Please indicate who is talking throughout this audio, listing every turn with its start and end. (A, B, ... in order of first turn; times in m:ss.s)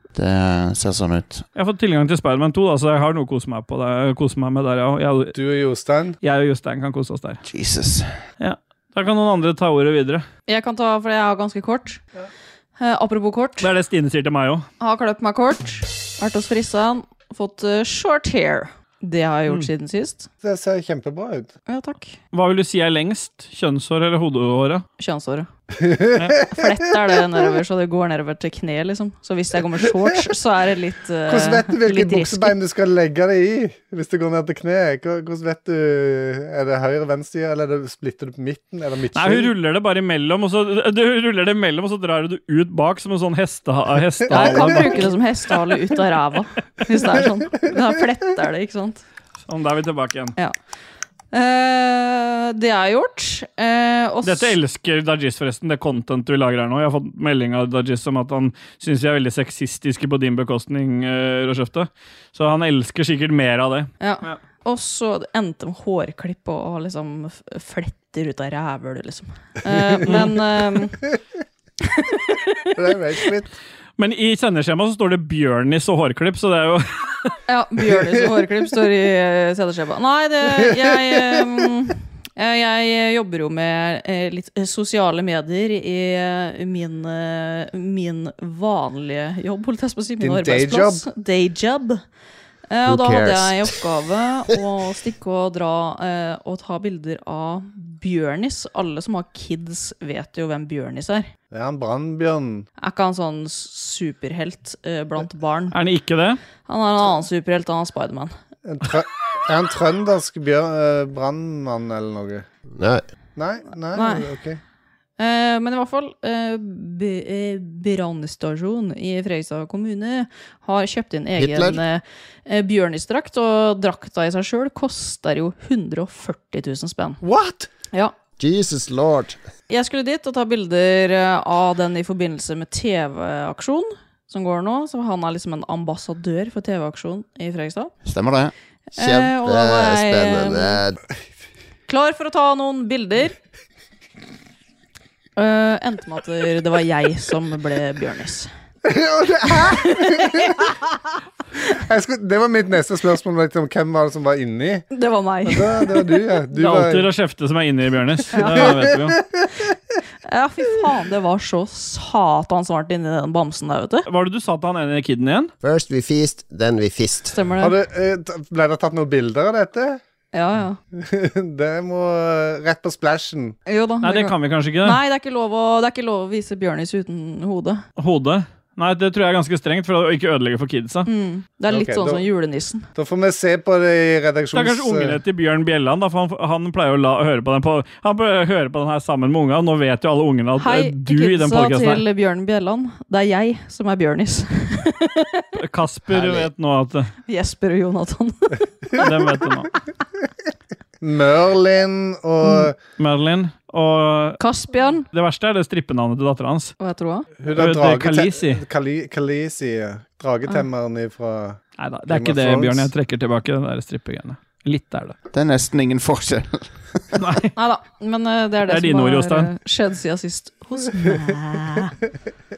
0:00.1-0:01.4 A
0:01.5-0:05.3 B
0:05.3-0:06.2 C
0:06.2-0:07.4 B
0:07.5-0:08.1 A
0:08.4-0:10.2 B
0:10.5-0:12.0 D
0:12.8-0:13.7 D
0:13.6-0:14.6 B
0:14.8-0:20.3 D
0:20.4-0:21.5 C
0:21.7-0:22.2 D
0:22.3-0:24.8 B
0:25.0-0:25.5 D
0:25.8-0:27.4 C
0:26.5-0:32.5 D
0:31.3-0:39.5 C
0:39.1-0:45.1 B
0:44.3-0:44.8 C
0:44.3-0:49.0 D
0:49.4-0:50.3 B
0:51.3-0:54.5 D
0:54.2-1:04.4 B
1:04.0-1:11.0 D
1:11.8-1:12.7 D
1:12.7-1:13.5 C
1:14.0-1:17.4 B
1:17.5-1:32.0 D
1:17.9-1:18.2 C
1:20.5-1:21.4 C
1:30.2-1:31.0 C
1:32.7-1:41.3 D
1:32.8-1:33.7 E
1:41.5-1:42.6 C
1:42.8-1:45.7 D
1:45.7-1:46.4 B
1:46.6-1:48.3 D
1:48.6-1:52.4 C
1:52.8-1:53.0 E
1:53.4-1:54.6 C
1:53.9-1:54.3 D
1:55.2-2:07.2 D
2:01.4-2:01.8 E
2:07.2-2:07.7 C
2:08.4-2:09.4 E
2:09.7-2:17.9 D
2:18.0-2:18.5 A
2:18.9-2:20.8 D
2:19.0-2:21.0 E
2:21.9-2:23.4 D
2:25.4-2:28.5 D
2:28.8-2:30.7 C
2:29.6-2:30.8 D
2:31.6-2:34.8 C
2:34.9-2:36.1 D
2:35.4-2:37.1 C
2:36.5-2:39.2 B
2:38.3-2:38.7 D
2:38.4-2:39.4 C
2:40.2-2:44.0 D
2:44.0-2:45.5 B
2:45.6-2:47.4 E
2:47.3-2:47.8 D
2:47.6-2:50.0 C
2:50.3-2:50.8 D
2:50.9-2:53.6 C
2:53.7-2:57.8 D
2:54.0-2:55.0 B
2:58.0-3:01.1 B
3:01.0-3:02.9 D
3:01.7-3:02.2 C
3:02.9-3:05.2 C
3:04.5-3:12.0 B
3:10.6-3:15.5 D
3:15.6-3:17.1 B
3:17.3-3:19.1 D
3:19.0-3:19.7 B
3:21.0-3:22.8 C
3:23.0-3:24.4 B
3:24.4-3:25.1 D
3:25.1-3:26.7 B
3:26.8-3:27.3 D
3:27.4-3:32.9 C
3:27.5-3:28.6 B
3:31.8-3:35.2 B
3:35.3-3:37.0 A
3:37.2-3:37.5 B
3:37.6-3:42.0 D
3:38.7-3:39.5 B